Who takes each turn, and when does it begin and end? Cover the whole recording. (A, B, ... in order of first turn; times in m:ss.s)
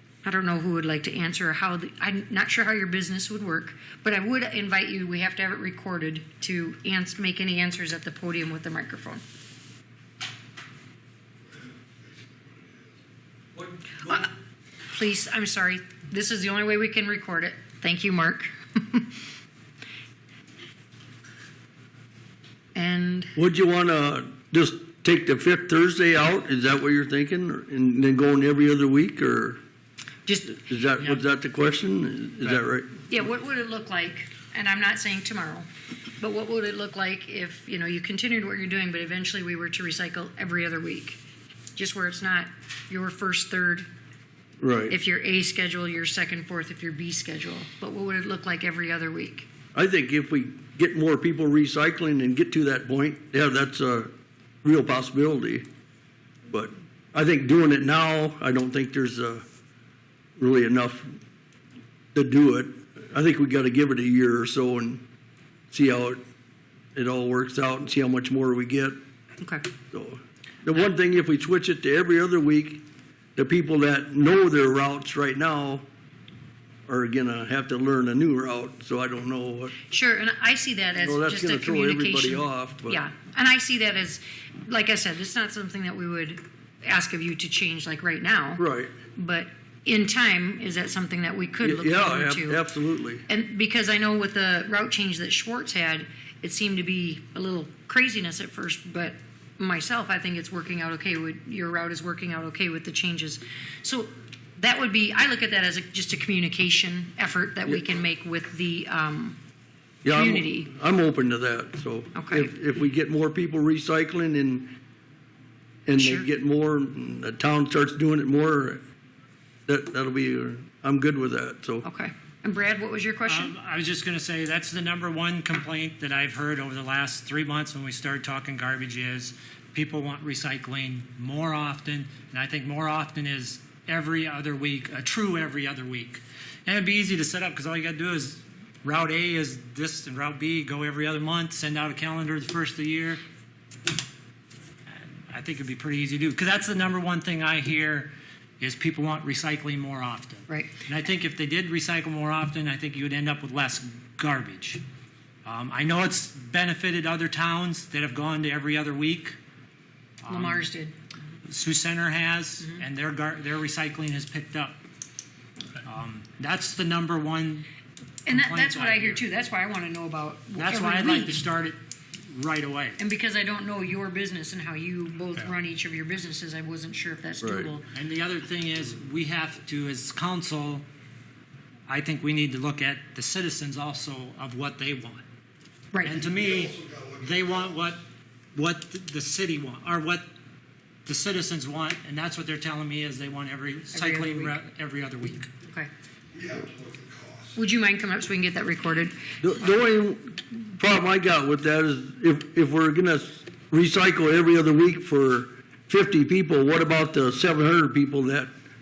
0:00.2-0:09.2 A
0:11.5-0:13.0 B
0:13.6-0:14.0 C
0:14.0-0:14.3 A
0:14.9-0:19.2 A
0:22.7-0:23.3 A
0:23.4-0:29.6 C
0:30.2-0:30.5 A
0:30.5-0:33.0 C
0:33.1-0:35.7 A
0:36.2-0:41.2 A
0:41.8-0:43.9 A
0:44.6-0:45.0 C
0:44.9-0:49.5 A
0:49.7-0:54.1 C
0:54.6-0:55.7 C
0:56.5-0:59.4 C
1:00.4-1:01.1 C
1:02.1-1:05.0 C
1:05.7-1:06.2 C
1:07.0-1:09.0 C
1:09.4-1:09.7 A
1:09.9-1:12.8 C
1:13.4-1:15.8 C
1:16.9-1:19.8 C
1:19.9-1:28.6 A
1:21.0-1:23.0 C
1:28.6-1:28.9 C
1:29.2-1:32.6 A
1:31.6-1:33.2 C
1:33.3-1:49.4 A
1:50.0-1:54.7 C
1:50.1-1:50.7 A
1:52.1-1:52.5 A
1:55.9-1:58.8 C
1:56.0-1:56.3 A
1:59.7-2:01.8 C
2:01.8-2:03.6 A
2:03.2-2:23.2 D
2:24.9-2:34.8 D
2:30.5-2:30.8 A
2:35.4-2:39.4 D
2:40.2-2:40.7 D
2:40.3-2:40.9 A
2:41.5-2:44.8 D
2:45.8-2:47.7 D
2:48.2-2:51.4 A
2:48.3-2:49.2 D
2:50.6-2:53.0 D
2:53.0-2:57.8 A
2:57.4-2:57.7 C
2:57.9-3:00.8 D
3:01.9-3:05.2 D
3:06.0-3:08.0 D
3:06.0-3:07.9 B
3:08.5-3:10.3 D
3:11.0-3:15.5 D
3:13.9-3:14.6 A
3:16.3-3:17.6 B
3:17.6-3:19.2 A
3:19.4-3:28.5 C